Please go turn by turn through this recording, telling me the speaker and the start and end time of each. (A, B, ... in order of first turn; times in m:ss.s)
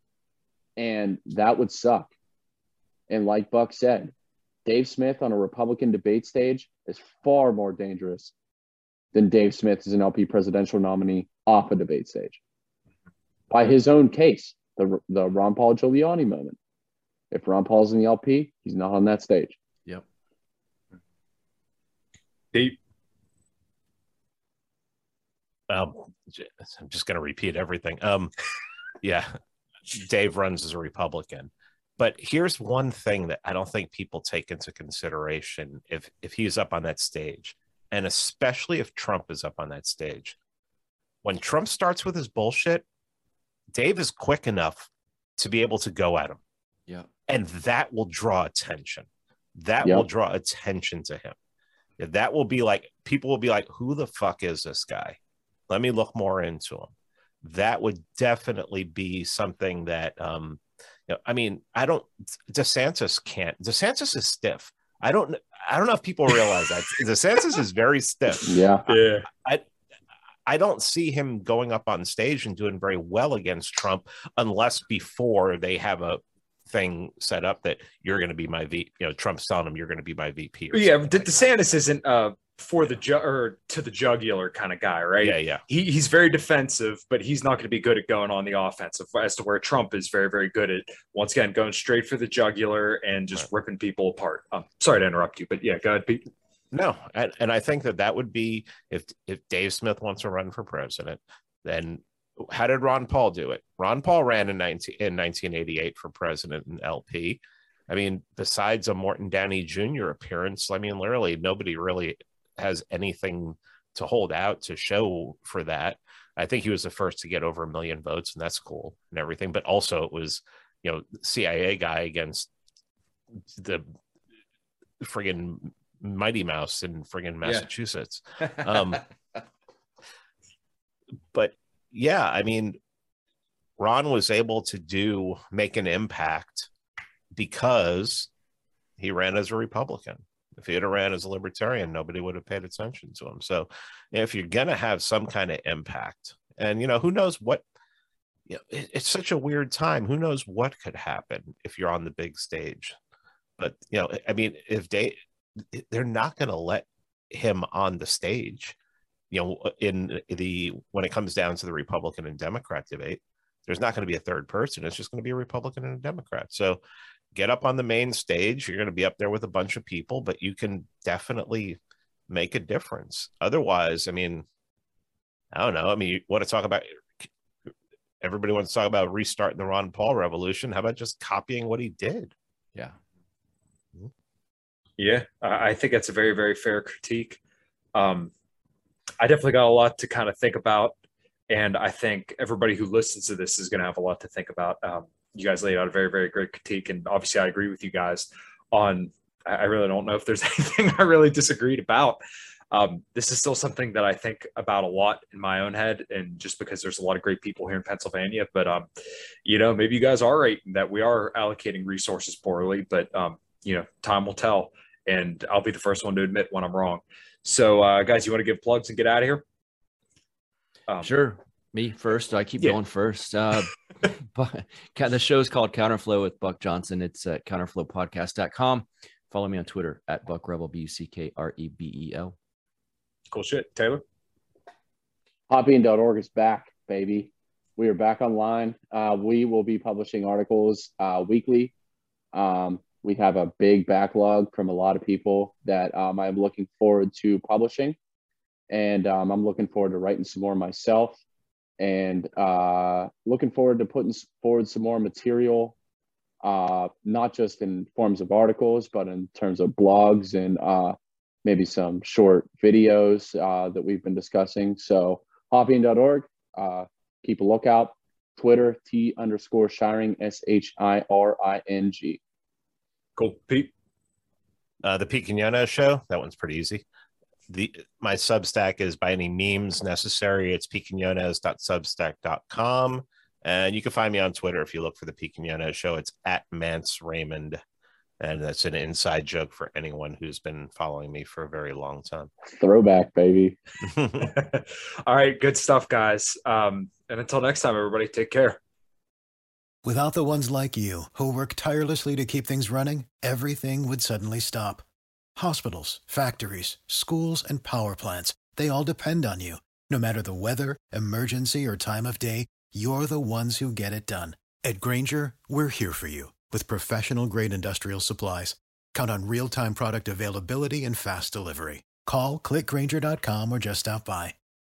0:00.8-0:02.1 A
0:03.1-0:04.1 A
0:04.6-0:08.3 A
0:09.1-0:12.4 A
0:13.5-0:16.6 A
0:17.3-0:19.6 A
0:25.7-0:28.3 B
0:29.0-0:29.4 B
0:29.9-0:40.4 B
0:41.2-0:42.8 B
0:43.7-0:46.4 B
0:47.3-0:51.4 B
0:52.0-0:55.2 B
0:55.7-1:09.6 B
1:08.5-1:08.8 A
1:08.9-1:09.3 C
1:10.4-1:21.4 B
1:20.7-1:36.3 C
1:25.2-1:25.6 B
1:36.7-2:02.5 B
2:03.5-2:03.9 B
2:05.0-2:09.0 B
2:07.4-2:07.7 D
2:08.4-2:09.0 D
2:11.3-2:12.8 B
2:13.8-2:16.7 B
2:17.3-2:18.3 B
2:19.0-2:27.6 B
2:28.5-2:33.0 B
2:33.6-2:38.8 B
2:39.3-2:46.8 B
2:47.3-2:54.4 B
2:55.5-2:56.9 B
2:58.2-3:02.3 B
3:05.0-3:07.4 C
3:07.9-3:08.3 C
3:09.2-3:11.0 C
3:11.5-3:22.2 C
3:22.7-3:28.9 C
3:29.4-3:39.4 C
3:41.0-3:43.7 D
3:44.3-3:52.3 D
3:53.3-3:54.0 C
3:55.5-4:01.7 A
4:02.3-4:08.0 A
4:08.7-4:11.2 A
4:11.8-4:15.7 A
4:16.4-4:32.2 A
4:33.2-4:33.7 C
4:34.8-4:36.8 B
4:37.5-4:47.6 B
4:48.2-4:52.3 B
4:52.5-4:53.6 A
4:53.9-4:54.3 B
4:54.2-4:58.6 C
4:59.8-5:04.8 E
5:05.4-5:24.3 E